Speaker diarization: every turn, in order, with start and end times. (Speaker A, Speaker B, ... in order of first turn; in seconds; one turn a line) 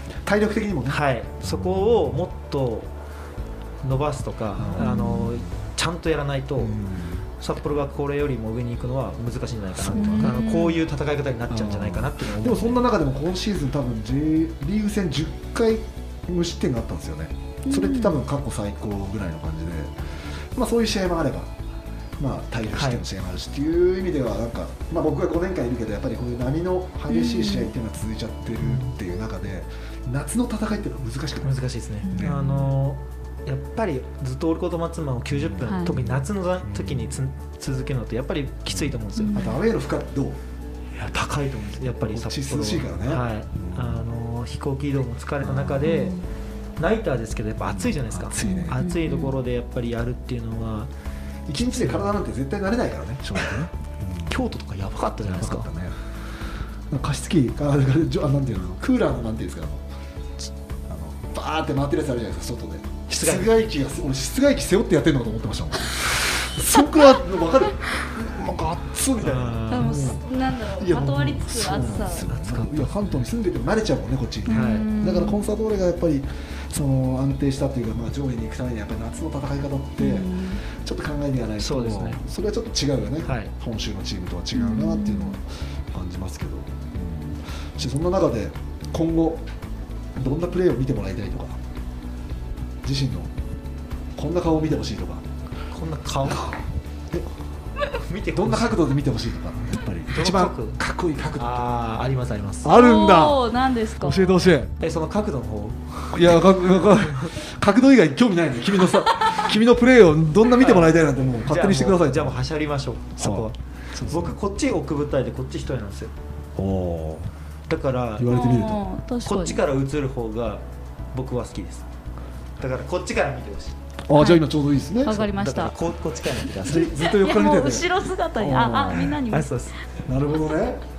Speaker A: 0.2-2.2
Speaker B: 0.9-2.9
Speaker B: 3.8-6.8
Speaker A: 4.6-5.5
Speaker C: 4.8-5.4
Speaker A: 6.6-7.3
Speaker B: 7.4-12.8
Speaker A: 9.8-10.6
Speaker C: 9.9-10.8
Speaker A: 11.5-19.9
Speaker C: 17.7-18.2
Speaker A: 20.5-21.5
Speaker A: 22.2-32.5
Speaker B: 22.8-23.0
Speaker C: 27.1-27.7
Speaker B: 28.6-28.9
Speaker B: 31.4-39.4
Speaker C: 32.0-32.7
Speaker A: 35.3-37.2
Speaker C: 35.6-35.9
Speaker A: 38.7-40.4
Speaker C: 39.2-39.6
Speaker B: 41.0-46.2
Speaker A: 41.9-44.1
Speaker A: 45.4-46.0
Speaker C: 45.9-46.2
Speaker B: 46.8-50.9
Speaker A: 47.6-48.9
Speaker C: 48.4-49.4
Speaker A: 51.5-54.4
Speaker B: 54.3-55.7
Speaker A: 55.2-56.0
Speaker A: 56.9-59.9
Speaker A: 60.9-70.2
Speaker B: 63.1-63.6
Speaker B: 69.2-70.2
Speaker C: 69.7-72.3
Speaker A: 70.8-89.5
Speaker B: 72.3-73.1
Speaker B: 74.5-74.9
Speaker C: 74.5-75.4
Speaker C: 80.0-80.6
Speaker B: 81.6-82.2
Speaker B: 83.2-83.5
Speaker C: 84.5-85.4
Speaker A: 90.2-91.6
Speaker A: 92.8-93.3
Speaker A: 94.2-95.3
Speaker B: 95.7-96.5
Speaker A: 96.3-96.6
Speaker B: 98.0-98.8
Speaker A: 98.3-101.7
Speaker B: 100.1-100.8
Speaker B: 101.4-102.7
Speaker A: 102.6-103.4
Speaker C: 102.7-104.4
Speaker A: 104.0-104.7
Speaker B: 104.8-106.4
Speaker A: 106.1-112.4
Speaker B: 107.0-107.4
Speaker B: 110.5-116.1
Speaker A: 113.2-114.4
Speaker A: 116.6-117.3
Speaker B: 117.7-118.6
Speaker A: 118.2-118.8
Speaker C: 118.3-119.6
Speaker B: 119.2-121.9
Speaker B: 122.6-123.8
Speaker A: 124.1-125.3
Speaker C: 124.2-124.5
Speaker C: 125.0-125.8
Speaker B: 125.1-127.0
Speaker A: 126.6-129.2
Speaker C: 126.7-129.5
Speaker B: 129.3-129.7
Speaker A: 130.1-130.8